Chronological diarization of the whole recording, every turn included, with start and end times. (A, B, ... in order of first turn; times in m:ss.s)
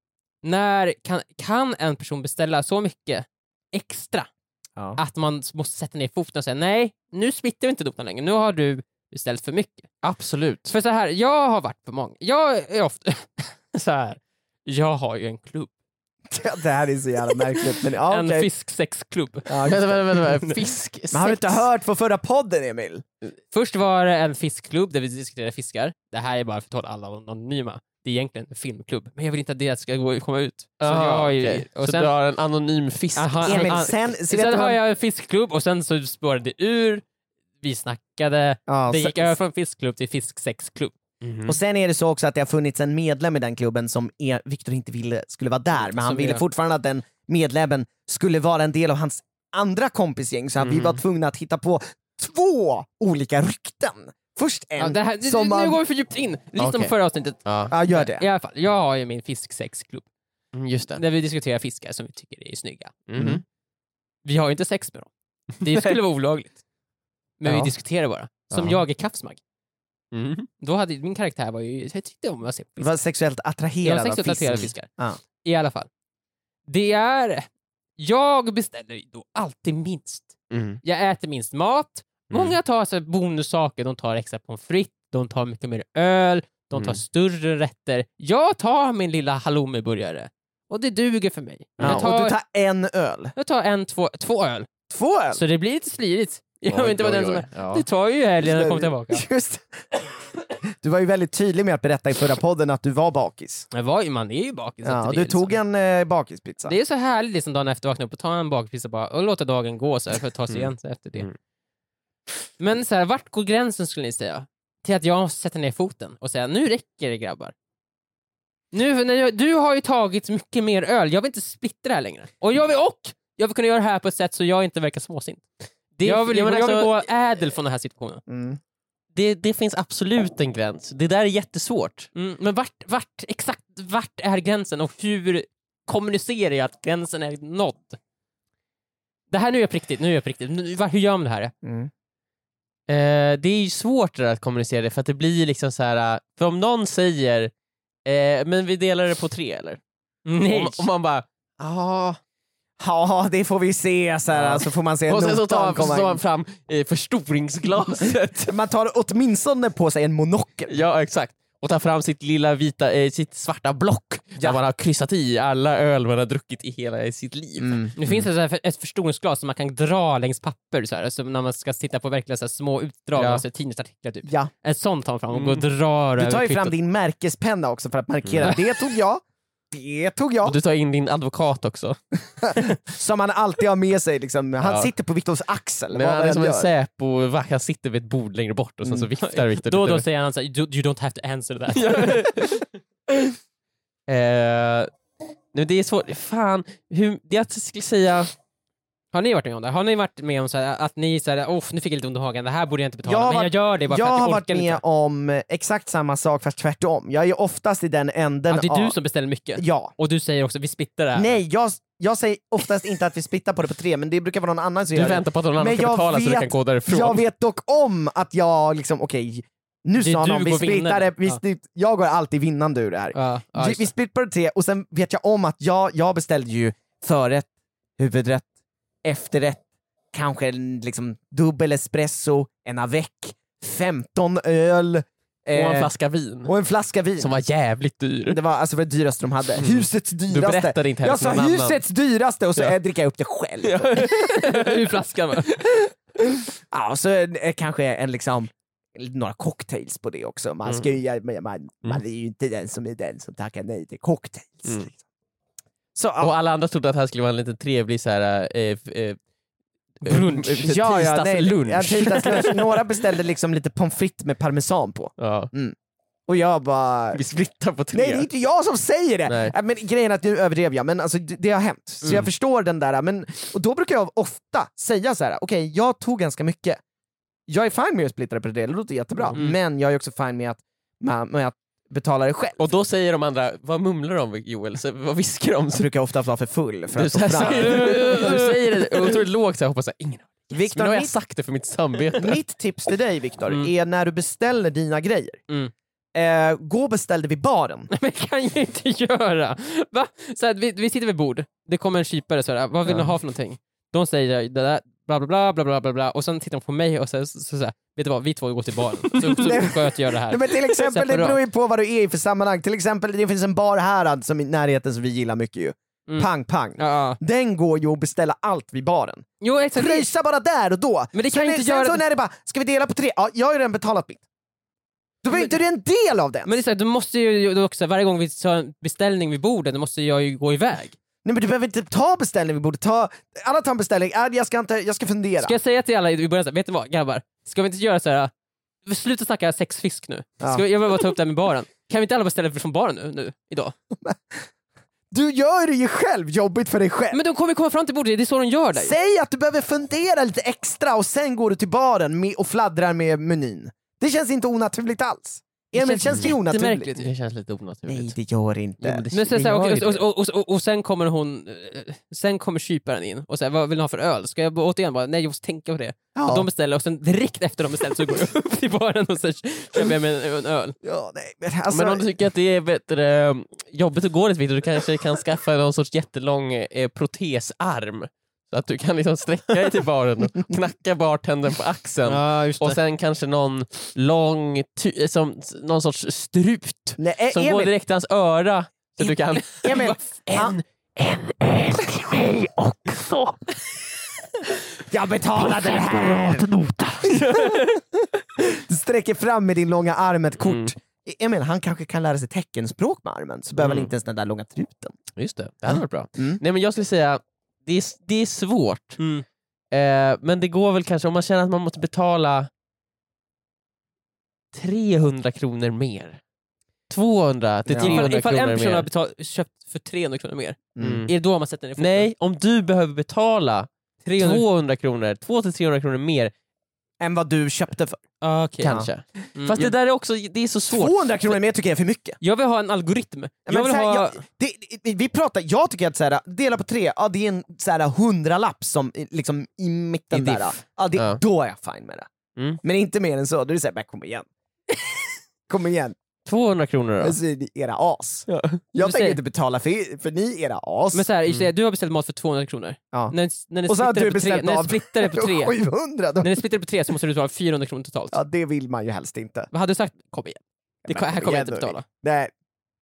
0:00.4-0:04.3 A
0:05.0-0:09.9 A
0:10.0-0:10.7 B
0:10.7-0:15.7 A
0:16.3-0:18.5 C
0:18.0-0:19.7 A
0:19.5-0:20.0 C
0:19.6-0:21.6 B
0:21.1-0:23.0 C
0:23.5-0:32.1 A
0:30.8-0:33.8 B
0:33.2-0:37.0 A
0:33.4-0:34.8 C
0:37.6-0:41.0 A
0:38.7-0:39.4 C
0:41.2-0:41.6 B
0:41.5-0:55.8 C
0:45.8-0:46.4 A
0:50.6-0:51.0 B
0:54.8-1:00.1 A
0:56.6-0:56.9 B
0:57.4-0:57.7 B
0:57.7-0:58.3 C
1:00.5-1:01.0 B
1:01.0-1:02.9 A
1:03.1-1:03.4 B
1:03.2-1:03.4 C
1:04.2-1:05.1 A
1:05.6-1:06.6 A
1:05.7-1:06.0 B
1:07.4-1:09.4 A
1:08.5-1:08.8 B
1:10.1-1:10.5 B
1:10.6-1:12.9 A
1:12.8-1:15.2 C
1:13.8-1:14.9 A
1:15.4-1:15.9 A
1:16.7-1:20.3 A
1:20.5-1:20.8 B
1:20.8-1:32.4 A
1:22.3-1:22.6 B
1:26.8-1:27.0 B
1:31.8-1:32.0 B
1:31.8-1:33.3 C
1:33.4-1:34.7 A
1:34.9-1:35.4 C
1:35.3-1:39.3 A
1:36.7-1:37.8 B
1:38.4-1:43.7 C
1:43.7-1:45.6 A
1:44.8-1:46.8 C
1:46.6-1:51.3 A
1:50.5-1:51.4 B
1:52.6-1:57.5 A
1:58.7-2:05.5 A
2:06.0-2:08.2 A
2:06.0-2:06.9 B
2:08.3-2:08.6 C
2:09.2-2:12.1 B
2:12.2-2:18.0 A
2:19.3-2:21.5 A
2:21.6-2:21.9 C
2:22.9-2:27.5 B
2:28.1-2:29.8 B
2:30.3-2:30.9 A
2:30.4-2:32.2 B
2:32.8-2:36.2 C
2:34.3-2:38.5 B
2:38.4-2:40.8 C
2:40.7-2:48.2 B
2:47.6-2:47.9 C
2:48.0-2:56.7 A
2:53.2-2:53.4 B
2:54.3-2:54.5 C
2:55.3-2:55.6 B
2:56.2-3:00.6 C
2:58.2-2:58.5 B
3:00.4-3:02.0 B
3:02.4-3:06.7 C
3:04.6-3:04.9 B
3:05.9-3:10.0 B
3:09.2-3:12.5 A
3:11.7-3:13.3 B
3:14.1-3:14.9 B
3:15.5-3:18.3 B
3:19.1-3:24.8 A
3:23.0-3:29.0 C
3:28.5-3:31.4 A
3:29.6-3:29.9 C
3:31.2-3:48.5 C
3:34.9-3:37.2 B
3:40.0-3:41.4 A
3:43.1-3:43.9 A
3:49.0-3:55.9 C
3:55.5-3:56.5 B
3:56.5-3:57.3 C
3:57.2-3:58.4 B
3:58.3-4:04.1 C
3:59.6-4:01.8 B
4:03.6-4:04.9 B
4:04.0-4:05.6 A
4:06.7-4:14.9 C
4:16.0-4:16.3 C
4:16.2-4:19.2 B
4:20.0-4:20.7 A
4:20.0-4:22.8 B
4:20.6-4:25.8 C
4:25.2-4:25.5 B
4:26.3-4:27.2 C
4:27.1-4:28.3 B
4:27.9-4:36.8 C
4:29.3-4:29.5 B
4:37.5-4:42.6 C
4:42.6-4:45.9 B
4:45.8-4:48.3 C
4:46.9-4:52.4 B
4:47.4-4:49.2 A
4:50.5-4:51.1 C
4:52.2-4:55.4 C
4:56.2-4:57.9 C
4:57.9-5:11.4 A
5:09.3-5:24.2 C
5:16.1-5:17.2 A
5:19.4-5:20.1 A
5:21.1-5:22.0 A
5:25.2-5:26.6 C
5:26.4-5:31.0 A
5:31.2-5:35.6 C
5:35.4-5:38.3 A
5:38.9-5:43.8 A
5:43.9-5:44.5 C
5:45.1-5:47.2 C
5:47.1-5:49.0 A
5:48.8-5:57.1 C
5:55.7-5:57.0 A
5:56.1-5:56.4 B
5:56.9-5:58.2 B
5:57.9-5:59.0 C
5:58.8-6:00.0 B
5:59.1-6:10.8 A
6:06.2-6:06.5 C
6:10.8-6:12.1 C
6:11.7-6:33.4 B
6:22.1-6:22.8 A
6:27.0-6:27.7 C
6:29.5-6:30.6 C
6:29.7-6:30.0 A
6:34.9-6:36.5 C
6:35.6-6:37.8 B
6:37.0-6:45.0 C
6:40.4-6:40.7 B
6:43.6-6:43.9 B
6:45.2-6:49.0 B
6:45.7-6:46.4 C
6:49.0-6:49.2 A
6:49.7-6:52.5 B
6:54.5-6:56.2 B
6:56.9-6:58.9 B
6:57.7-6:58.1 C
6:57.8-7:02.1 A
7:00.8-7:01.0 C
7:00.8-7:01.1 B
7:01.8-7:06.3 B
7:04.0-7:04.4 A
7:07.0-7:08.0 C
7:08.2-7:08.8 A
7:08.6-7:11.4 B
7:08.6-7:08.9 C
7:09.4-7:09.7 A
7:10.7-7:12.2 C
7:12.2-7:14.2 A
7:13.5-7:22.1 C
7:20.1-7:21.2 B
7:22.4-7:22.6 B
7:22.6-7:24.3 C
7:25.5-7:26.0 C
7:26.3-7:27.2 B
7:27.0-7:31.1 C
7:28.3-7:28.6 B
7:28.8-7:29.2 A
7:30.9-7:35.6 A
7:33.7-7:36.3 C
7:36.2-7:38.2 A
7:38.1-7:39.5 C
7:39.5-7:41.8 A
7:40.8-7:42.3 C